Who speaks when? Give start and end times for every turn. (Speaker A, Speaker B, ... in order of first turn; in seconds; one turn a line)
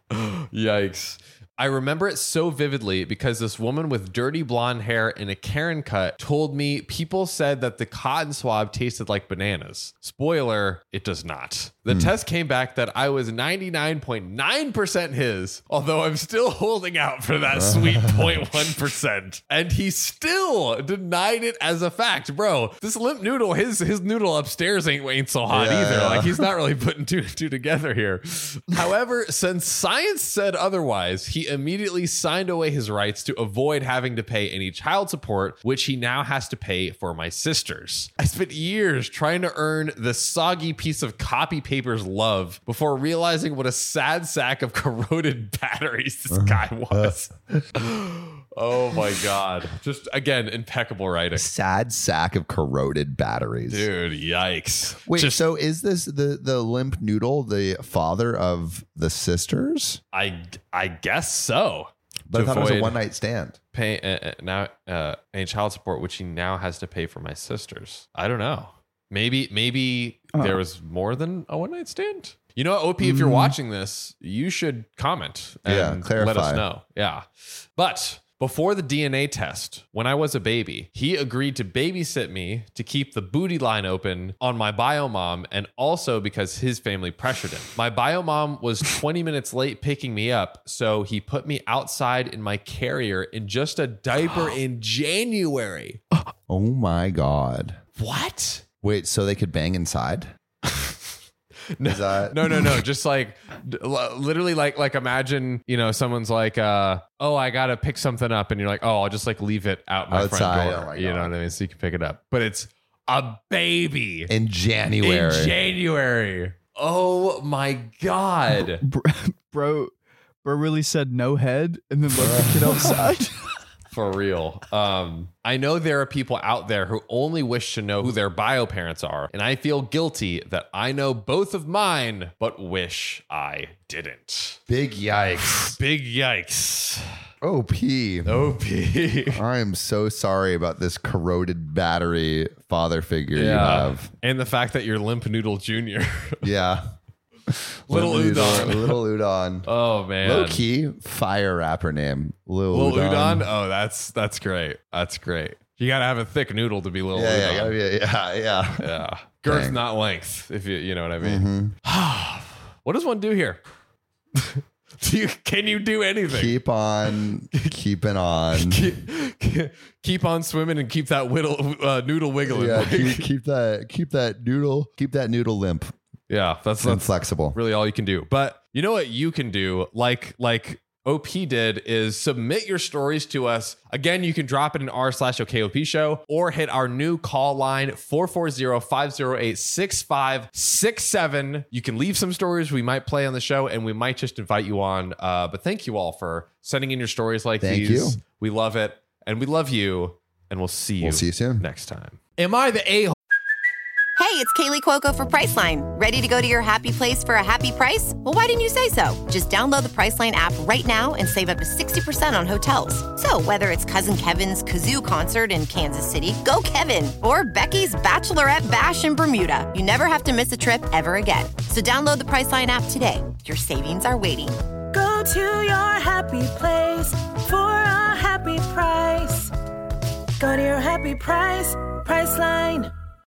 Speaker A: 0.1-51.5
Speaker B: 11.9-12.1
Speaker B: 17.5-18.5
Speaker B: 25.5-26.5
Speaker B: 46.3-47.6
Speaker B: 51.3-53.9
Speaker A: 53.7-55.4
Speaker B: 55.1-60.0
Speaker A: 60.1-63.0
Speaker B: 62.3-63.6
Speaker A: 63.7-96.0
Speaker C: 73.0-73.4
Speaker B: 75.6-76.7
Speaker B: 96.5-97.8
Speaker A: 98.0-98.6
Speaker B: 98.8-100.3
Speaker A: 100.7-101.0
Speaker A: 101.8-114.3
Speaker B: 101.8-102.5
Speaker B: 110.1-111.3
Speaker B: 114.3-115.5
Speaker A: 115.0-118.8
Speaker C: 118.8-119.9
Speaker C: 120.4-123.3
Speaker B: 122.2-123.1
Speaker A: 123.9-134.6
Speaker B: 134.7-135.8
Speaker A: 135.4-137.0
Speaker B: 137.4-138.5
Speaker A: 138.3-139.4
Speaker B: 139.3-144.1
Speaker A: 143.3-146.4
Speaker B: 146.4-146.8
Speaker B: 147.5-149.7
Speaker A: 147.9-149.0
Speaker A: 149.7-150.6
Speaker B: 150.2-153.5
Speaker A: 152.7-157.8
Speaker B: 157.1-158.8
Speaker A: 158.8-163.6
Speaker B: 159.4-159.8
Speaker B: 161.2-161.7
Speaker A: 164.4-166.6
Speaker B: 166.3-168.8
Speaker A: 168.5-173.2
Speaker B: 172.5-175.9
Speaker A: 176.3-203.2
Speaker B: 176.8-177.6
Speaker B: 197.6-198.2
Speaker B: 201.0-201.6
Speaker D: 204.2-224.5
Speaker E: 224.9-229.5
Speaker E: 230.4-232.9